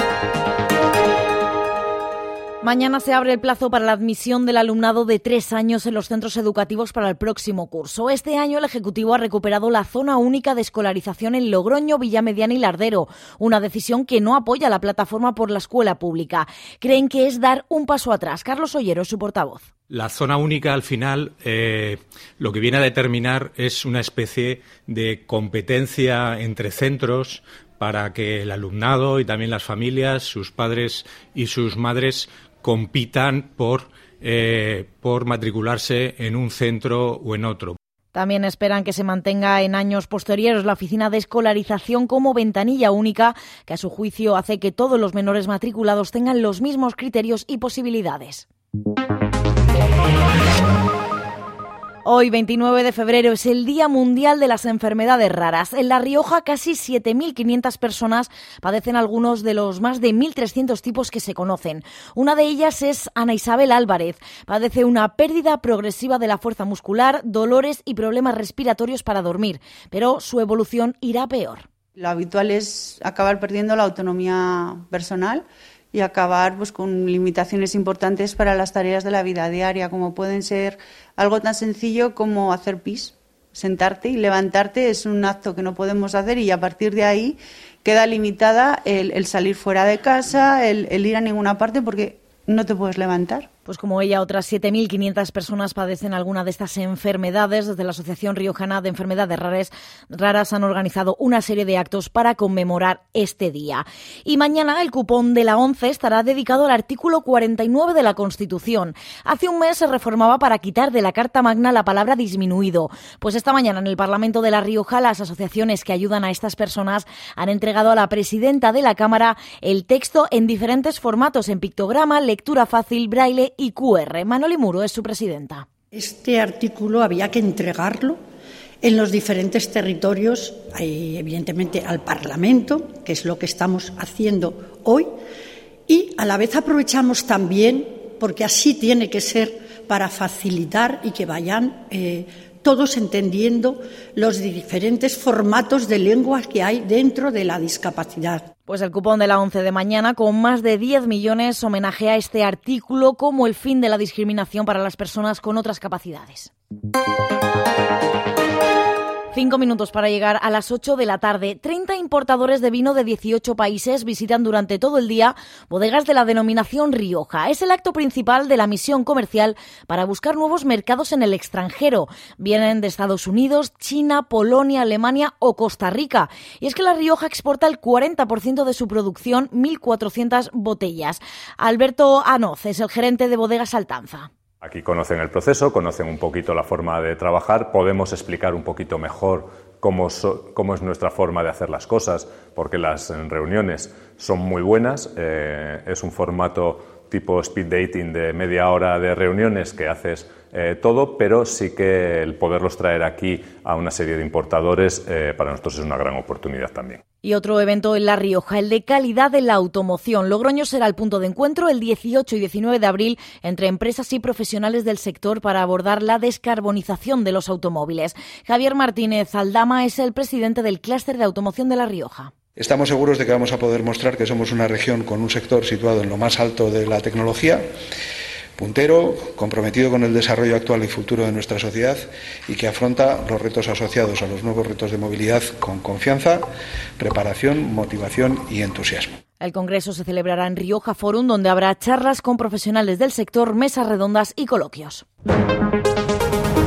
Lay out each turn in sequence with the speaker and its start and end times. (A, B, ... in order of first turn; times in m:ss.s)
0:02.6-0:19.7 A
0:19.9-0:37.8 B
0:38.1-0:48.5 A
0:52.0-1:11.7 A
1:12.0-1:33.5 C
1:33.7-2:05.7 A
2:05.9-2:08.2 D
2:08.8-2:15.1 D
2:15.9-2:28.5 D
2:28.7-2:36.5 A
2:39.3-3:04.3 A
3:04.6-3:27.0 E
3:27.2-3:42.3 A
3:42.6-3:47.6 F
3:48.6-3:56.4 F
3:57.0-3:59.1 F
3:59.4-4:05.0 A